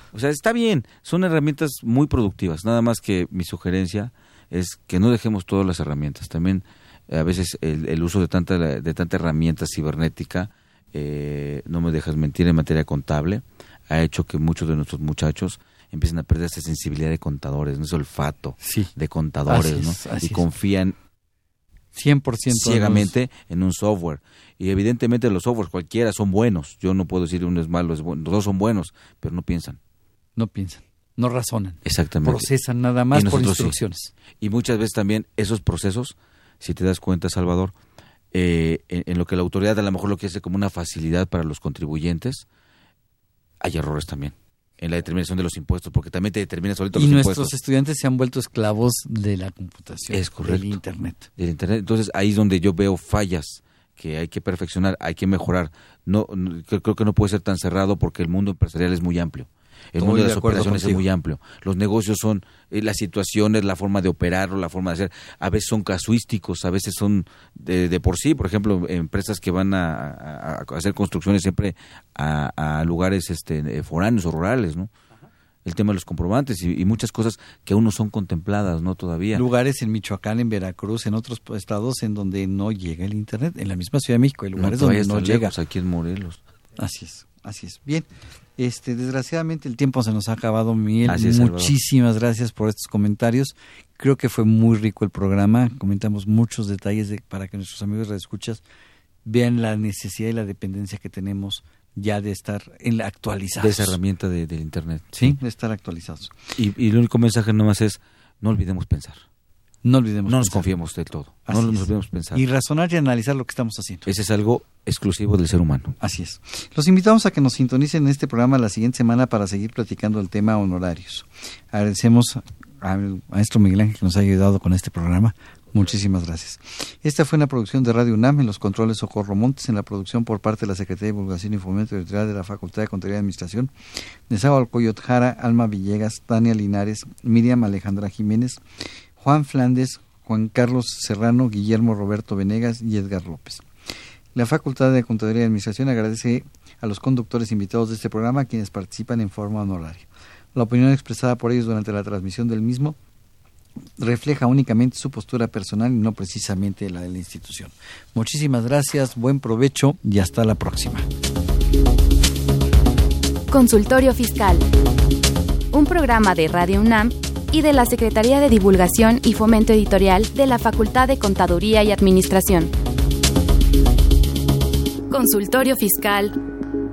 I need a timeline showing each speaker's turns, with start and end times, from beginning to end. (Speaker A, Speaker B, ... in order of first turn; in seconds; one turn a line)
Speaker A: 0.1-20.9
Speaker B: 18.6-18.9
Speaker B: 19.5-20.5
Speaker B: 21.9-23.1
Speaker A: 22.5-29.8
Speaker B: 30.4-34.1
Speaker A: 31.8-32.5
Speaker A: 33.1-33.8
Speaker A: 34.4-37.7
Speaker A: 38.3-42.5
Speaker A: 43.6-47.5
Speaker B: 46.9-51.3
Speaker A: 50.1-50.8
Speaker A: 51.4-74.9
Speaker B: 60.0-61.0
Speaker A: 75.6-79.4
Speaker B: 79.3-85.5
Speaker A: 84.5-86.4
Speaker B: 86.8-88.1
Speaker B: 88.6-98.6
Speaker A: 91.0-91.8
Speaker B: 99.2-104.0
Speaker A: 103.6-105.3
Speaker B: 105.1-106.4
Speaker A: 106.6-109.2
Speaker B: 109.8-110.7
Speaker A: 110.2-112.4
Speaker B: 111.5-114.1
Speaker A: 114.0-116.0
Speaker B: 116.0-133.7
Speaker B: 134.3-138.6
Speaker B: 139.2-143.6
Speaker B: 144.3-153.0
Speaker B: 154.0-161.1
Speaker C: 163.5-164.6
Speaker C: 165.7-172.7
Speaker C: 175.1-176.3